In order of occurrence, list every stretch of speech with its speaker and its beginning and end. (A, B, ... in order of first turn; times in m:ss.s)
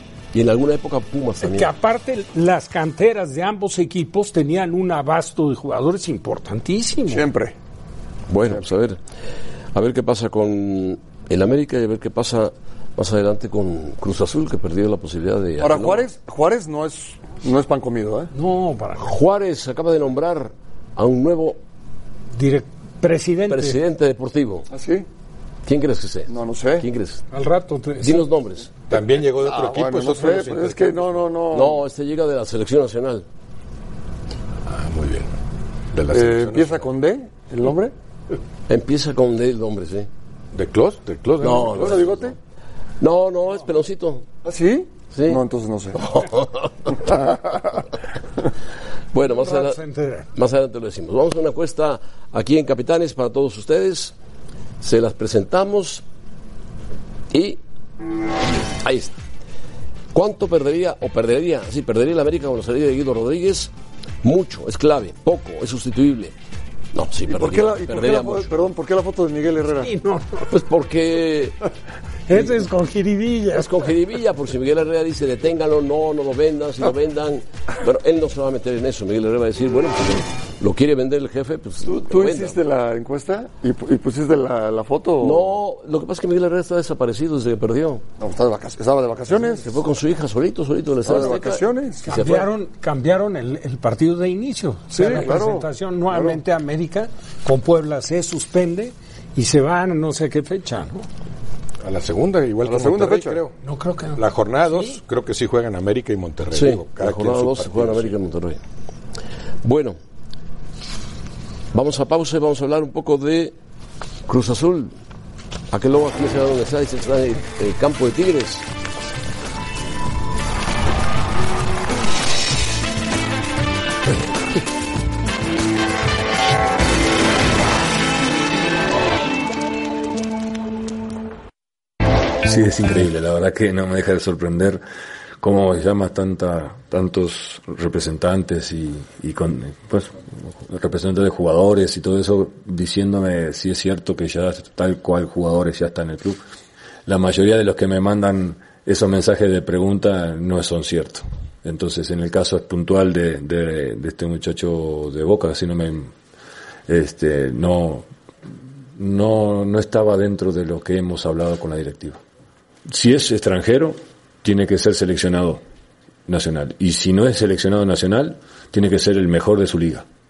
0:00.3-0:01.7 A
0:01.4-0:07.2 B
0:07.1-0:07.5 C
0:08.3-0:09.0 A
0:09.7-0:16.0 A
0:15.6-0:18.3 C
0:18.3-0:19.1 B
0:19.0-0:21.6 A
0:22.4-0:23.8 B
0:23.5-0:24.7 A
0:24.7-0:25.0 C
0:25.6-0:27.2 A
0:26.3-0:26.8 C
0:27.3-0:28.3 B
0:28.0-0:28.7 A
0:28.9-0:31.2 D
0:28.9-0:31.8 C
0:31.5-0:33.2 A
0:34.7-0:35.3 D
0:35.9-0:36.9 D
0:36.1-0:37.9 C
0:38.7-0:40.1 A
0:40.5-0:42.2 D
0:41.4-0:42.3 A
0:41.6-0:42.3 C
0:43.0-0:44.2 A
0:44.4-0:46.0 C
0:45.1-0:45.4 A
0:45.9-0:46.9 A
0:49.1-0:49.8 A
0:49.3-0:50.3 B
0:50.3-0:54.1 A
0:54.8-0:56.0 A
0:57.3-0:57.6 A
0:58.7-0:59.2 A
1:00.1-1:03.7 A
1:04.2-1:06.3 A
1:06.9-1:08.5 A
1:07.3-1:09.9 C
1:09.8-1:10.5 B
1:10.5-1:11.6 A
1:12.3-1:13.8 B
1:12.3-1:12.6 A
1:13.5-1:22.6 A
1:21.8-1:25.5 C
1:25.2-1:28.0 A
1:28.2-1:29.6 C
1:29.4-1:32.5 A
1:31.0-1:32.1 C
1:32.0-1:41.0 B
1:34.9-1:36.4 C
1:41.8-1:43.5 D
1:42.6-1:43.4 C
1:43.6-1:45.0 B
1:44.2-1:48.1 D
1:46.5-1:48.6 A
1:49.6-1:50.0 A
1:51.7-1:53.5 A
1:54.2-1:54.9 A
1:55.7-1:58.6 A
2:12.4-2:14.8 E
2:15.4-2:26.4 E
2:27.0-2:36.1 E
2:36.9-2:38.0 E
2:39.0-2:42.2 E
2:42.9-2:45.6 E
2:46.3-2:50.0 E